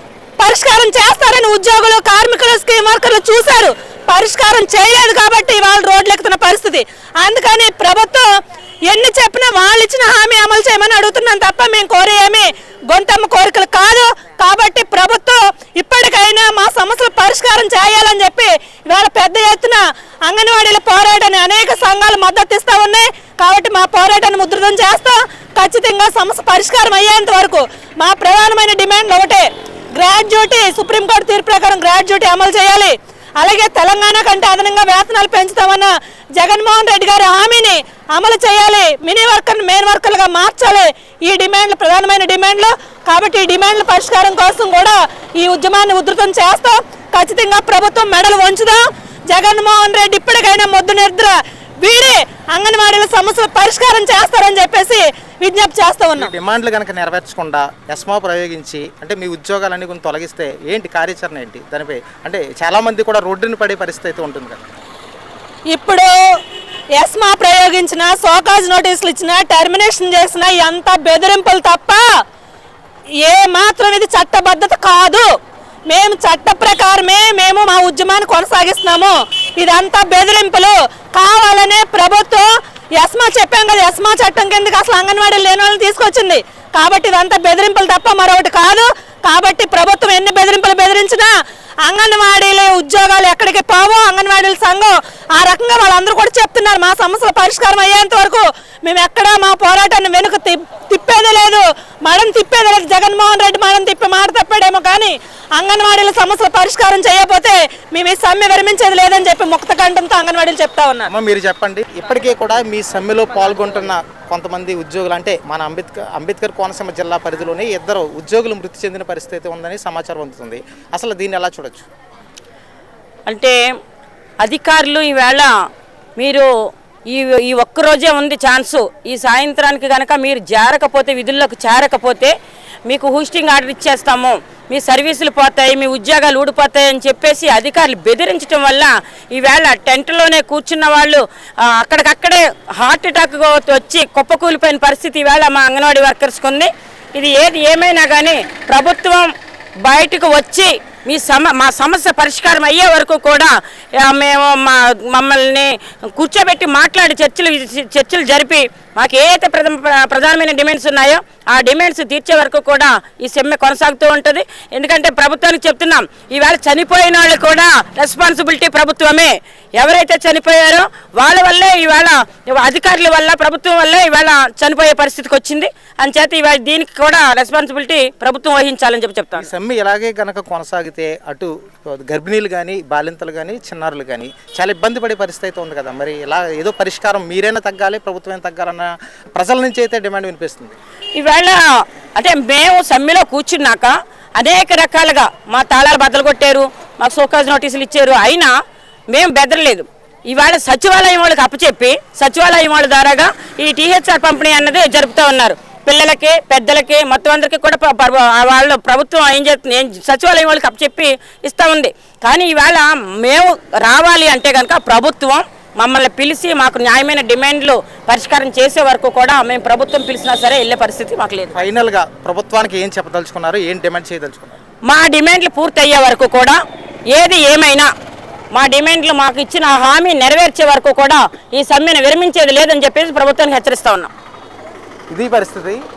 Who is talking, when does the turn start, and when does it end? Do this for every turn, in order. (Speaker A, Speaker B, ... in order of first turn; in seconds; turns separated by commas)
Speaker A: 0.4-8.3, Speaker A: 8.8-56.3, Speaker B: 56.1-64.7, Speaker A: 65.7-66.1, Speaker A: 67.0-72.0, Speaker A: 73.2-75.3, Speaker A: 75.9-91.3, Speaker A: 91.8-111.1, Speaker B: 111.1-121.9, Speaker C: 123.3-123.6, Speaker C: 124.4-125.5, Speaker C: 126.2-126.5, Speaker C: 127.1-132.3, Speaker C: 132.9-149.3, Speaker C: 149.8-179.5, Speaker B: 179.3-190.8, Speaker C: 191.2-191.6, Speaker C: 192.2-198.5, Speaker C: 199.1-221.6, Speaker B: 221.6-224.6, Speaker C: 224.8-226.6, Speaker C: 227.1-227.9, Speaker C: 228.6-234.1, Speaker B: 235.1-235.8